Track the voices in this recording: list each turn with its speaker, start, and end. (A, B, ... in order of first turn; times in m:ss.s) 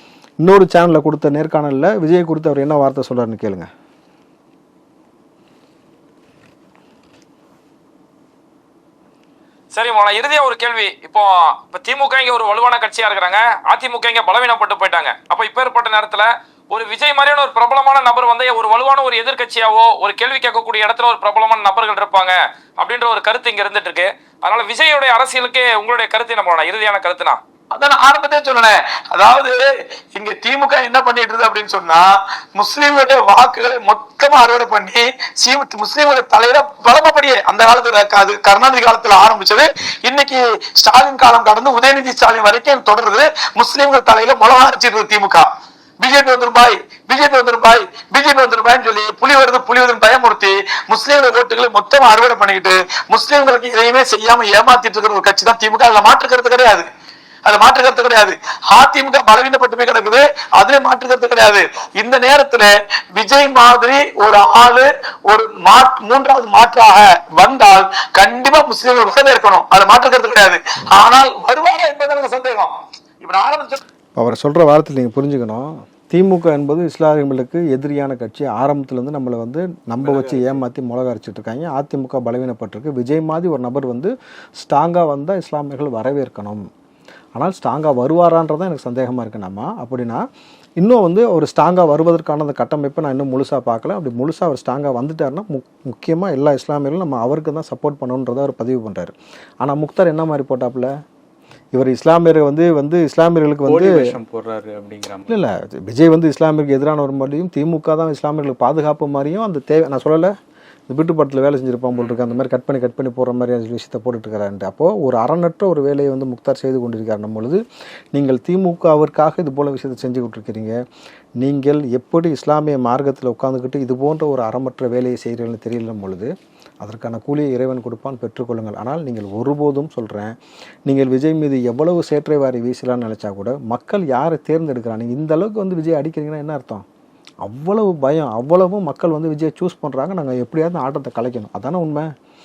0:00.4-0:03.7 A
0:09.7-0:27.4 B
0:27.7-0:45.5 C
0:46.0-0:56.8 C
0:57.4-1:13.8 C
1:14.2-1:26.7 A
1:27.3-1:30.2 A
1:30.8-1:40.9 A
1:41.7-1:44.1 A
1:43.6-1:45.4 D
1:45.3-1:50.3 A
1:50.9-1:57.6 A
1:52.0-1:52.2 D
1:58.1-2:00.8 A
2:01.4-2:10.3 A
2:10.9-2:16.8 A
2:17.4-2:22.1 A